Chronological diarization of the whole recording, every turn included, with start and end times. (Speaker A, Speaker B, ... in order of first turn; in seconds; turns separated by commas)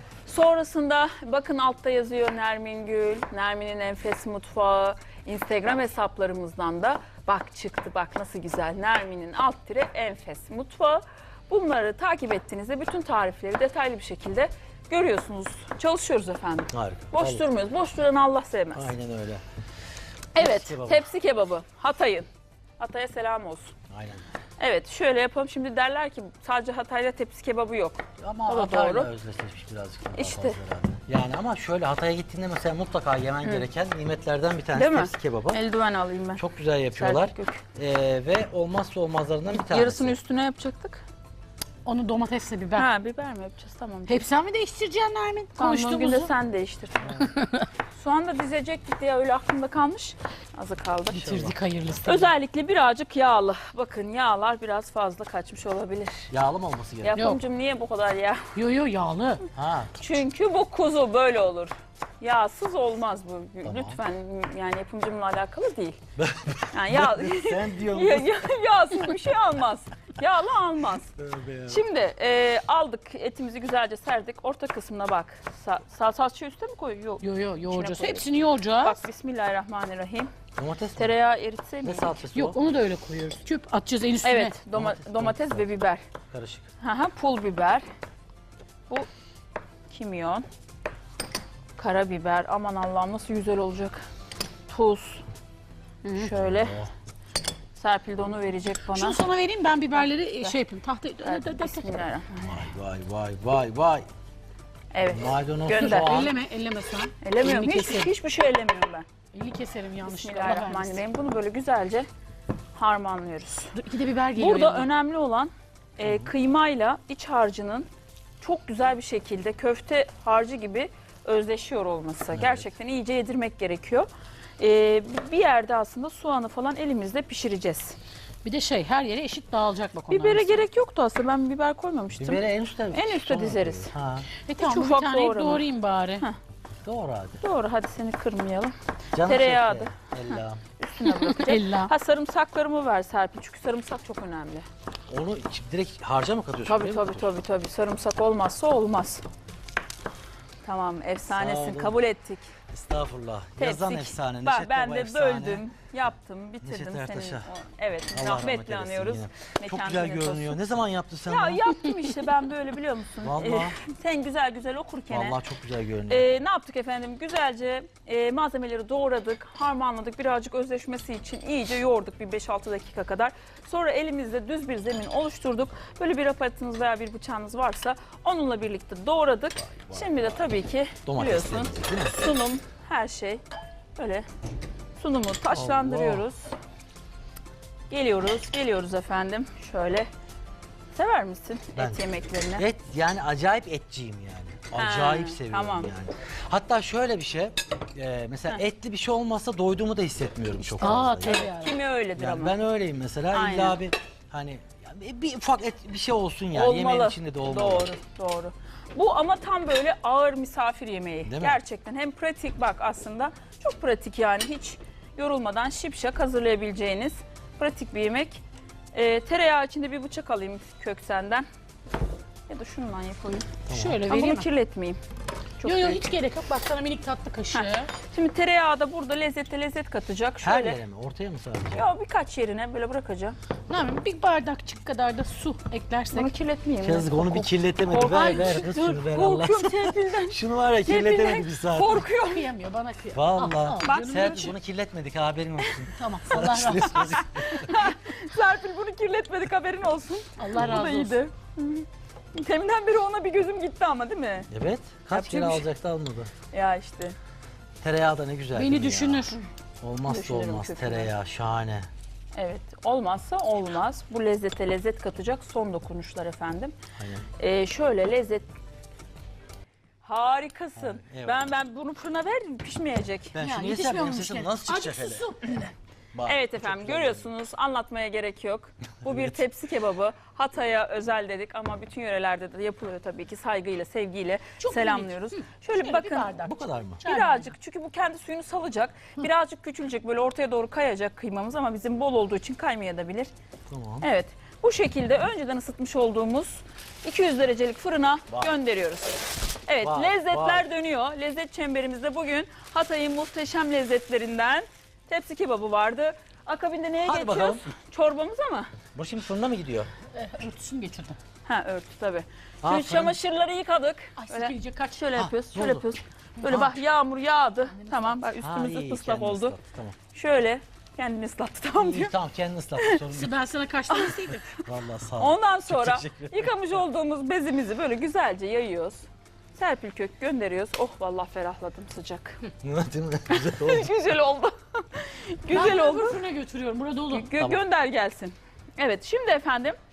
Speaker A: 0.3-18.9, Speaker B: 16.7-17.4, Speaker B: 18.7-19.4, Speaker A: 20.4-22.3, Speaker B: 20.4-21.0, Speaker A: 22.8-23.8, Speaker B: 23.9-24.2, Speaker A: 24.6-29.1, Speaker B: 28.2-35.6, Speaker A: 30.2-30.6, Speaker A: 34.7-37.6, Speaker B: 36.4-40.1, Speaker A: 39.5-41.0, Speaker C: 41.9-42.9, Speaker A: 42.8-44.3, Speaker C: 44.1-46.3, Speaker A: 45.6-47.3, Speaker C: 47.2-47.7, Speaker A: 47.9-51.4, Speaker B: 51.1-51.6, Speaker C: 51.1-52.3, Speaker A: 52.0-56.3, Speaker B: 56.3-57.2, Speaker A: 57.0-58.5, Speaker C: 58.5-59.5, Speaker B: 59.5-59.9, Speaker A: 60.0-66.0, Speaker B: 63.6-64.0, Speaker B: 66.2-68.4, Speaker A: 66.7-71.1, Speaker B: 71.2-71.8, Speaker A: 71.7-78.3, Speaker C: 77.2-79.0, Speaker A: 78.8-80.3, Speaker B: 80.6-81.2, Speaker A: 81.0-82.2, Speaker B: 81.8-82.6, Speaker C: 82.3-84.6, Speaker A: 84.2-86.0, Speaker B: 84.7-85.7, Speaker B: 86.3-86.7, Speaker A: 86.8-87.9, Speaker A: 89.9-90.5, Speaker A: 91.8-94.0, Speaker A: 94.7-95.2, Speaker A: 96.1-96.9, Speaker B: 96.2-96.9, Speaker A: 97.8-99.2, Speaker C: 98.9-102.1, Speaker A: 101.2-102.5, Speaker B: 102.4-104.1, Speaker A: 104.9-106.2, Speaker B: 105.1-106.3, Speaker C: 105.8-108.1, Speaker A: 107.2-109.1, Speaker C: 109.3-111.0, Speaker A: 110.0-112.1, Speaker A: 112.8-113.7, Speaker C: 113.7-114.9, Speaker A: 114.4-117.9, Speaker B: 116.0-116.3, Speaker A: 118.4-124.1, Speaker B: 122.3-122.7, Speaker A: 124.6-128.0, Speaker C: 128.4-130.7, Speaker A: 130.1-133.9, Speaker B: 132.2-134.3, Speaker C: 134.4-136.2, Speaker A: 134.6-135.7, Speaker B: 136.8-137.4, Speaker A: 137.4-144.7, Speaker B: 139.1-140.6, Speaker C: 141.0-141.9, Speaker B: 145.1-147.4, Speaker A: 146.7-149.2, Speaker A: 150.6-152.5, Speaker B: 151.3-152.0, Speaker B: 152.7-155.6, Speaker A: 153.6-160.6, Speaker B: 156.6-157.5, Speaker B: 158.1-161.8, Speaker A: 161.3-165.4, Speaker B: 163.2-163.8, Speaker B: 165.1-166.4, Speaker A: 166.1-183.4, Speaker B: 179.7-180.4, Speaker B: 181.1-182.2, Speaker A: 184.0-184.3, Speaker A: 185.0-186.5, Speaker B: 185.5-186.2, Speaker A: 187.9-190.1, Speaker A: 190.9-192.7, Speaker B: 191.8-192.0, Speaker B: 192.6-201.5, Speaker A: 194.8-195.9, Speaker C: 200.8-201.8, Speaker A: 200.8-202.6, Speaker B: 202.2-207.9, Speaker A: 203.3-203.8, Speaker A: 206.5-221.5, Speaker B: 211.2-211.6, Speaker A: 222.5-223.6, Speaker B: 223.7-224.0, Speaker C: 223.7-224.5, Speaker A: 224.1-225.0, Speaker A: 225.6-226.0, Speaker C: 225.6-227.9, Speaker A: 227.5-230.8, Speaker B: 230.4-231.8, Speaker A: 231.7-233.4, Speaker C: 233.7-236.3, Speaker A: 236.1-242.4, Speaker B: 236.8-242.1, Speaker C: 242.2-244.5, Speaker B: 243.1-247.7, Speaker A: 243.8-244.5, Speaker C: 245.9-247.0, Speaker A: 246.9-254.5, Speaker C: 250.4-251.2, Speaker B: 254.5-256.3, Speaker A: 255.1-255.7, Speaker A: 256.5-257.2, Speaker B: 257.8-261.9, Speaker C: 258.5-259.4, Speaker A: 260.1-261.1, Speaker A: 262.4-266.8, Speaker B: 267.0-267.3, Speaker A: 267.4-268.5, Speaker A: 270.0-273.4, Speaker B: 270.8-271.5, Speaker B: 273.3-275.3, Speaker C: 273.4-275.7, Speaker B: 276.1-277.3, Speaker A: 276.2-286.4, Speaker B: 279.0-279.4, Speaker C: 284.6-287.5, Speaker B: 286.4-287.0, Speaker A: 287.0-293.3, Speaker B: 293.7-294.1, Speaker A: 294.0-308.7, Speaker B: 299.8-300.7, Speaker B: 307.0-307.7, Speaker B: 308.9-309.9, Speaker C: 310.1-311.2, Speaker A: 311.4-319.6, Speaker B: 312.6-313.2, Speaker C: 314.2-315.0, Speaker B: 315.2-315.9, Speaker C: 316.4-316.7, Speaker C: 317.9-318.2, Speaker B: 318.4-320.0, Speaker A: 320.1-322.1, Speaker B: 321.8-323.3, Speaker C: 323.1-324.6, Speaker A: 323.9-324.4, Speaker B: 324.6-326.6, Speaker A: 325.2-332.4, Speaker B: 332.6-333.9, Speaker A: 333.3-336.2, Speaker C: 335.5-337.3, Speaker A: 337.1-339.8, Speaker B: 337.4-337.6